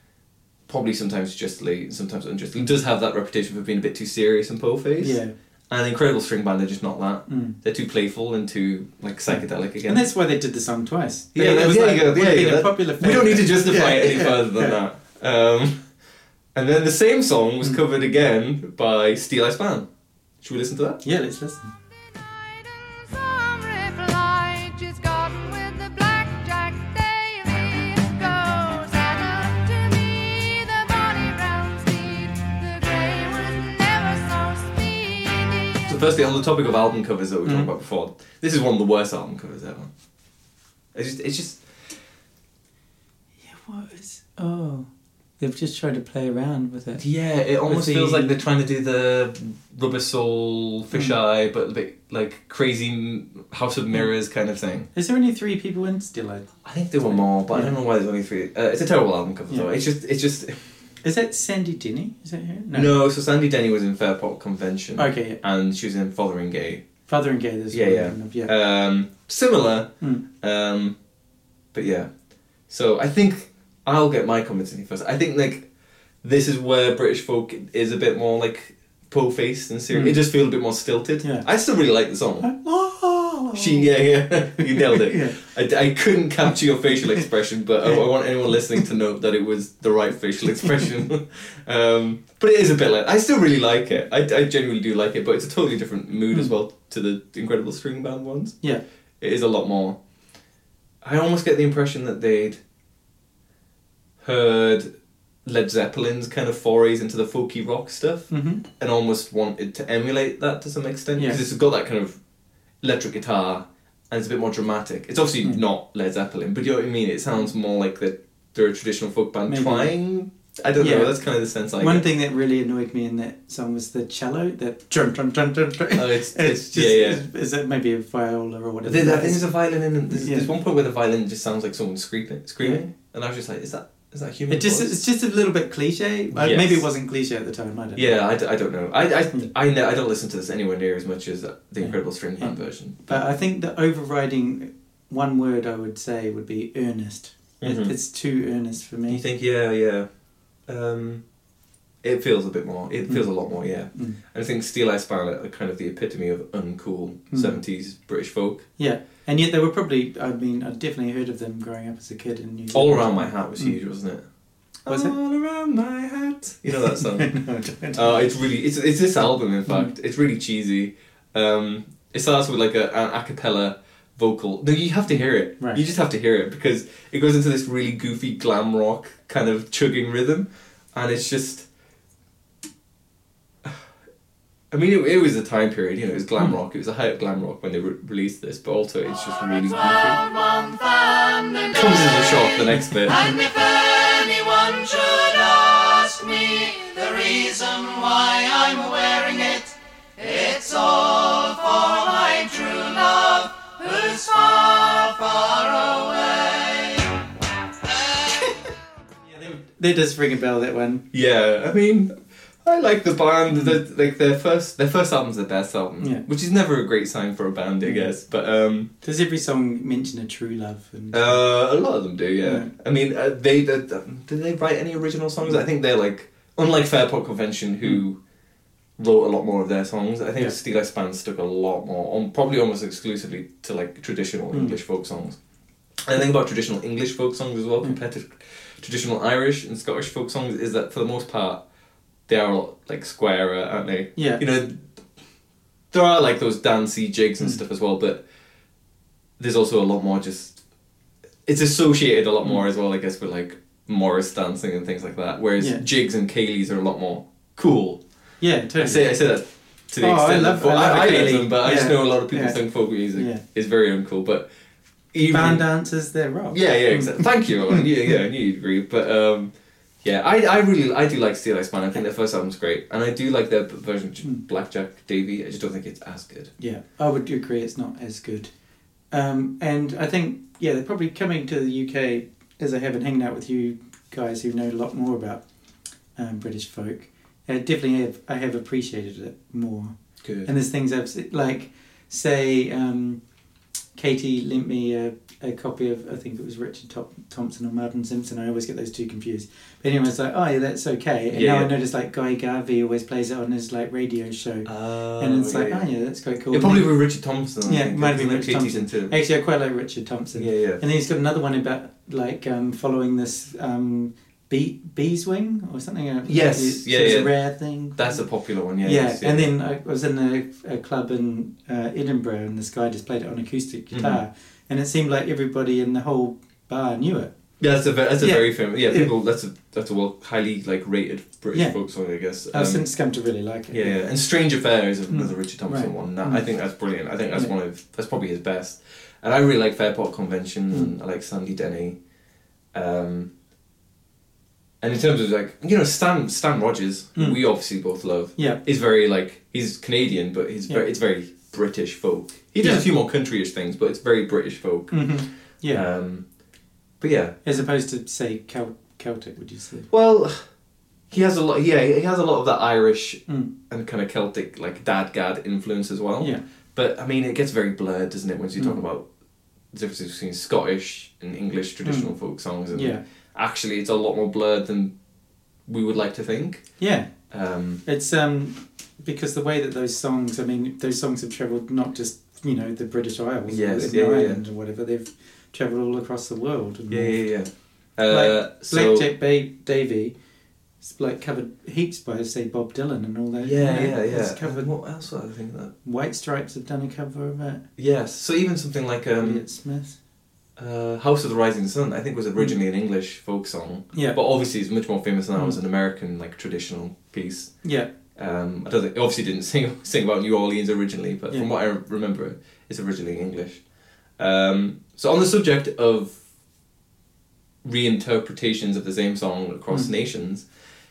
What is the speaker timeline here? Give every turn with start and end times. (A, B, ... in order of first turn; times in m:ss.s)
0:00.7-0:10.0 A
0:05.0-0:05.3 B
0:07.3-0:07.6 B
0:09.3-0:14.8 B
0:11.4-0:15.8 A
0:16.6-0:19.9 A
0:20.4-0:21.0 A
0:21.0-0:21.7 B
0:22.1-0:36.6 C
0:35.9-0:39.9 A
0:37.4-0:37.7 B
0:40.9-0:41.6 A
0:43.4-0:47.0 B
0:47.0-0:54.9 A
0:47.6-0:48.4 B
0:50.9-0:51.2 B
0:54.9-0:56.5 B
0:56.6-1:00.6 A
0:57.1-0:57.8 B
1:01.0-1:02.9 B
1:02.7-1:06.8 A
1:05.0-1:05.4 B
1:07.1-1:08.5 B
1:07.7-1:11.0 A
1:11.7-1:12.1 A
1:12.7-1:15.7 A
1:16.2-1:22.5 A
1:19.9-1:20.2 B
1:22.4-1:23.9 B
1:23.5-1:38.6 A
1:24.6-1:25.4 B
1:39.2-1:40.0 A
1:41.0-1:42.6 A
1:44.2-1:44.9 A
1:45.4-1:52.2 A
1:48.3-1:48.6 B
1:51.2-1:51.4 B
1:52.8-2:02.1 A
1:59.5-1:59.9 B
2:00.8-2:01.1 B
2:01.8-2:09.4 B
2:05.9-2:07.2 A
2:08.8-2:15.0 A
2:10.1-2:10.5 B
2:14.5-2:18.1 B
2:16.3-2:16.8 A
2:18.0-2:23.2 A
2:21.8-2:29.2 B
2:27.6-2:27.9 A
2:29.1-2:30.1 A
2:30.7-2:31.2 A
2:32.0-2:38.7 A
2:33.9-2:34.2 B
2:37.3-2:37.6 B
2:38.8-2:43.8 B
2:42.7-2:44.2 A
2:44.8-2:47.4 A
2:44.9-2:45.1 B
2:46.8-2:48.2 B
2:47.9-3:01.7 A
2:49.7-2:49.9 B
2:55.1-2:55.8 B
3:04.7-3:10.2 A
3:09.9-3:11.9 C
3:11.7-3:13.2 A
3:13.1-3:27.1 C
3:29.3-3:31.0 B
3:31.1-3:38.9 A
3:33.5-3:33.8 B
3:37.8-3:38.1 B
3:39.0-3:41.4 B
3:41.1-3:48.2 A
3:42.4-3:42.7 B
3:49.0-3:55.4 A
3:54.5-3:54.8 B
3:56.1-4:01.6 A
4:02.3-4:04.9 A
4:04.2-4:04.4 B
4:05.9-4:08.2 A
4:09.4-4:10.6 A
4:11.4-4:18.0 A
4:18.4-4:19.1 B
4:18.8-4:24.5 A
4:20.0-4:22.6 B
4:23.1-4:23.4 B
4:25.1-4:25.6 A
4:25.3-4:27.9 B
4:26.5-4:36.5 A
4:36.6-4:38.5 B
4:39.1-4:45.4 B
4:46.2-4:53.2 B
4:50.2-4:50.5 A
4:53.9-5:06.9 B
5:01.3-5:01.7 A
5:04.6-5:05.9 A
5:06.5-5:09.1 A
5:07.6-5:18.2 B
5:10.4-5:10.8 A
5:16.3-5:17.3 A
5:17.9-5:19.5 A
5:18.8-5:27.3 B
5:23.9-5:24.2 A
5:27.6-5:32.8 A
5:28.2-5:29.1 B
5:32.5-5:34.0 B
5:33.7-5:42.0 A
5:35.1-5:36.4 B
5:42.7-5:43.3 A
5:44.8-5:55.1 A
5:52.6-5:52.9 B
5:54.9-5:55.8 B
5:55.7-5:56.2 A
5:57.0-5:57.4 A
5:57.4-5:59.9 B
5:59.9-6:00.4 A
6:01.1-6:09.1 A
6:09.7-6:14.9 A
6:11.8-6:12.1 B
6:12.7-6:13.0 B
6:15.6-6:16.7 A
6:16.8-6:17.1 B
6:17.3-6:17.8 A
6:17.8-6:27.2 B
6:23.5-6:24.4 A
6:26.9-6:29.1 A
6:28.1-6:30.1 B
6:30.8-6:34.7 B
6:33.4-6:35.7 A
6:35.8-6:37.6 B
6:37.8-6:39.4 A
6:39.2-6:40.0 B
6:40.6-6:47.6 A
6:47.6-6:47.9 B
6:48.2-6:53.6 A
6:54.2-6:56.2 A
6:57.6-7:00.4 A